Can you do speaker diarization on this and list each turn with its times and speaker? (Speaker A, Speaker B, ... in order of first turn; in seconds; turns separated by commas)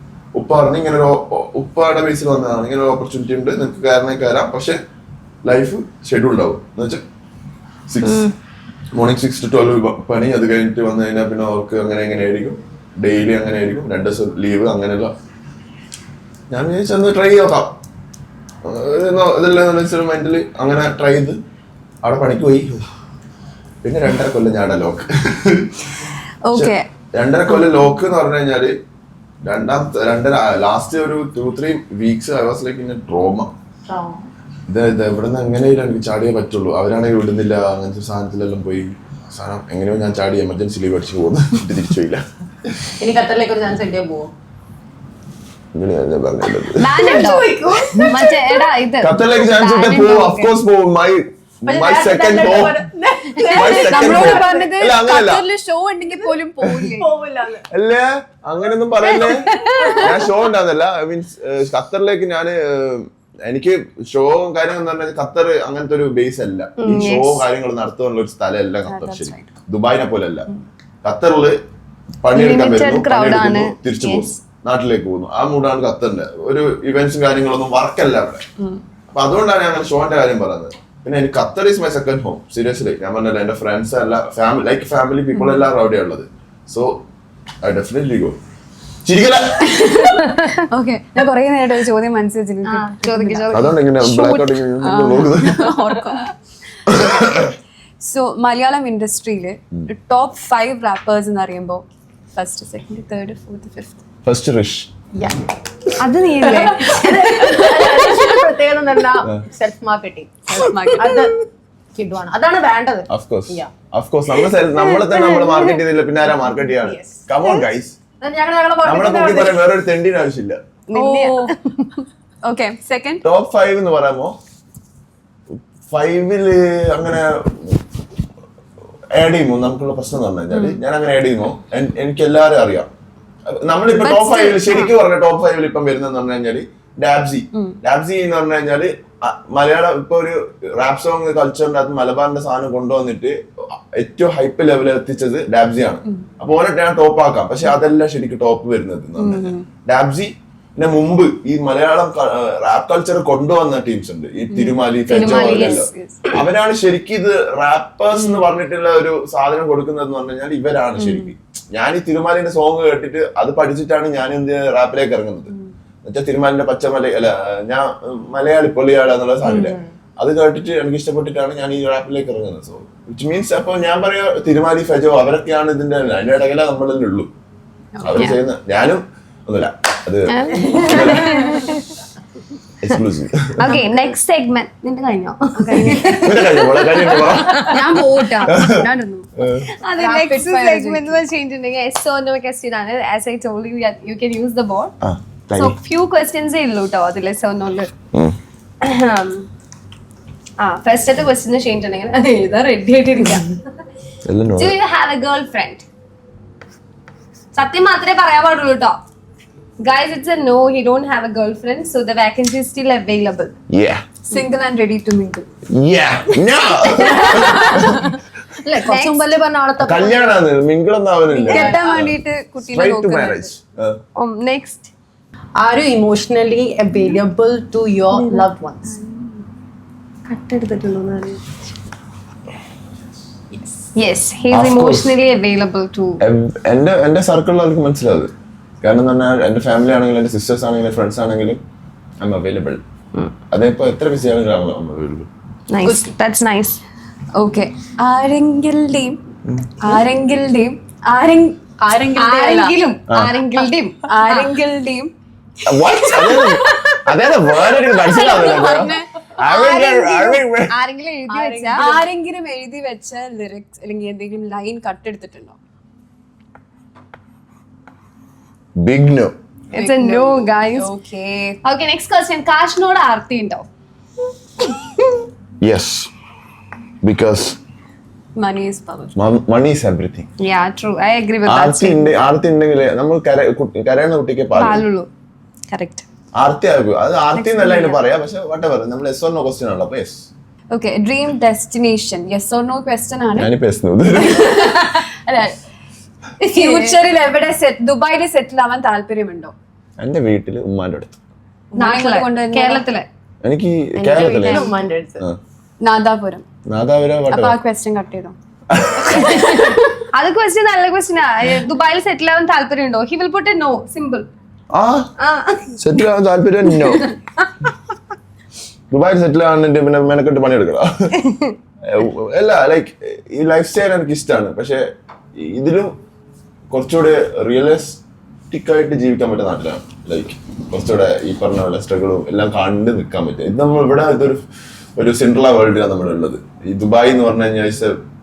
Speaker A: 0.3-4.8, Speaker A: 5.4-7.0, Speaker A: 7.9-8.3, Speaker B: 8.0-8.3, Speaker A: 8.9-15.1, Speaker A: 16.5-17.7, Speaker A: 18.6-21.4, Speaker A: 22.0-22.9, Speaker A: 23.8-28.7, Speaker C: 26.4-26.9, Speaker A: 29.4-33.5, Speaker D: 33.9-34.2, Speaker A: 34.7-42.9, Speaker D: 43.0-44.3, Speaker A: 45.7-46.9, Speaker B: 46.7-50.5, Speaker D: 46.9-48.5, Speaker A: 49.0-52.8, Speaker D: 51.6-54.7, Speaker C: 53.4-57.1, Speaker A: 53.5-55.4, Speaker D: 56.0-56.3, Speaker A: 56.6-56.9, Speaker D: 56.9-57.6, Speaker A: 57.7-70.5, Speaker C: 59.1-60.1, Speaker D: 59.8-60.2, Speaker B: 66.8-67.4, Speaker C: 68.9-69.5, Speaker A: 71.0-71.6, Speaker A: 72.2-78.4, Speaker B: 72.3-74.3, Speaker A: 79.1-87.0, Speaker C: 85.3-85.6, Speaker A: 87.6-88.4, Speaker A: 89.0-89.8, Speaker C: 89.7-93.6, Speaker D: 90.1-90.5, Speaker B: 92.6-94.4, Speaker A: 93.5-95.7, Speaker C: 94.2-96.3, Speaker A: 96.8-97.5, Speaker C: 98.0-104.0, Speaker A: 104.2-104.9, Speaker D: 105.1-105.9, Speaker B: 106.0-107.2, Speaker C: 106.4-108.2, Speaker D: 106.4-111.3, Speaker C: 110.5-111.3, Speaker D: 111.9-113.7, Speaker A: 113.1-118.0, Speaker D: 116.8-117.2, Speaker D: 118.2-119.7, Speaker A: 118.8-120.6, Speaker B: 120.9-121.4, Speaker C: 120.9-123.2, Speaker D: 120.9-121.5, Speaker A: 123.2-124.3, Speaker A: 125.9-127.8, Speaker A: 129.2-132.9, Speaker A: 133.5-165.5, Speaker B: 134.1-134.8, Speaker C: 134.1-134.7, Speaker C: 149.2-149.7, Speaker C: 154.5-156.4, Speaker B: 155.1-155.8, Speaker C: 160.9-161.3, Speaker A: 166.0-177.3, Speaker D: 169.5-169.9, Speaker A: 178.0-181.4, Speaker B: 180.3-181.8, Speaker A: 182.8-183.7, Speaker B: 183.6-188.6, Speaker C: 185.6-186.4, Speaker A: 186.2-187.8, Speaker C: 187.5-189.3, Speaker D: 187.7-188.0, Speaker A: 188.4-188.8, Speaker A: 189.3-189.7, Speaker B: 189.7-194.9, Speaker C: 190.0-191.2, Speaker A: 195.0-195.8, Speaker B: 195.5-197.9, Speaker B: 198.8-199.5, Speaker B: 200.6-203.6, Speaker A: 204.2-204.8, Speaker B: 204.6-205.8, Speaker B: 207.5-209.0, Speaker B: 209.8-213.5, Speaker A: 213.7-214.0, Speaker C: 214.2-215.5, Speaker A: 215.7-218.0, Speaker C: 217.1-218.0, Speaker D: 217.2-218.0, Speaker D: 218.6-220.4, Speaker B: 218.8-219.3, Speaker A: 219.8-224.0, Speaker D: 221.3-221.8, Speaker C: 221.4-223.5, Speaker B: 224.2-224.9, Speaker D: 225.6-228.9, Speaker B: 230.3-231.4, Speaker B: 233.9-236.2, Speaker A: 234.5-235.1, Speaker A: 236.2-238.3, Speaker A: 238.8-241.6, Speaker A: 242.2-242.8, Speaker A: 243.5-245.3, Speaker B: 245.7-246.8, Speaker C: 247.3-249.2, Speaker A: 249.4-249.7, Speaker C: 249.8-251.6, Speaker D: 251.8-252.7, Speaker B: 252.2-254.6, Speaker C: 254.1-255.1, Speaker A: 255.6-260.7, Speaker C: 255.7-257.0, Speaker C: 257.7-259.1, Speaker B: 259.5-262.0, Speaker D: 261.3-262.0, Speaker C: 261.8-265.6, Speaker A: 268.8-269.4, Speaker B: 269.7-270.9, Speaker C: 269.7-271.6, Speaker B: 271.6-273.7, Speaker A: 275.6-276.1, Speaker A: 277.0-277.6, Speaker C: 278.4-279.1, Speaker A: 279.1-280.3, Speaker B: 280.4-282.1, Speaker A: 281.4-284.8, Speaker B: 284.5-285.1, Speaker B: 285.7-286.0, Speaker A: 286.4-290.3, Speaker C: 290.7-293.5, Speaker A: 293.4-294.7, Speaker C: 294.1-295.6, Speaker C: 296.4-299.5, Speaker D: 296.4-297.0, Speaker A: 300.0-301.2, Speaker C: 301.7-302.8, Speaker B: 301.7-303.1, Speaker A: 303.4-304.7, Speaker D: 303.9-305.2, Speaker C: 305.8-306.4, Speaker A: 306.7-307.6, Speaker C: 307.3-308.3, Speaker A: 308.7-309.4, Speaker C: 309.2-309.8, Speaker B: 309.3-314.3, Speaker A: 314.7-315.1, Speaker B: 315.2-315.8, Speaker A: 315.8-317.1, Speaker A: 318.9-321.1, Speaker B: 321.2-321.5, Speaker A: 321.8-324.8, Speaker A: 325.4-325.9, Speaker A: 326.7-334.4, Speaker A: 335.0-338.0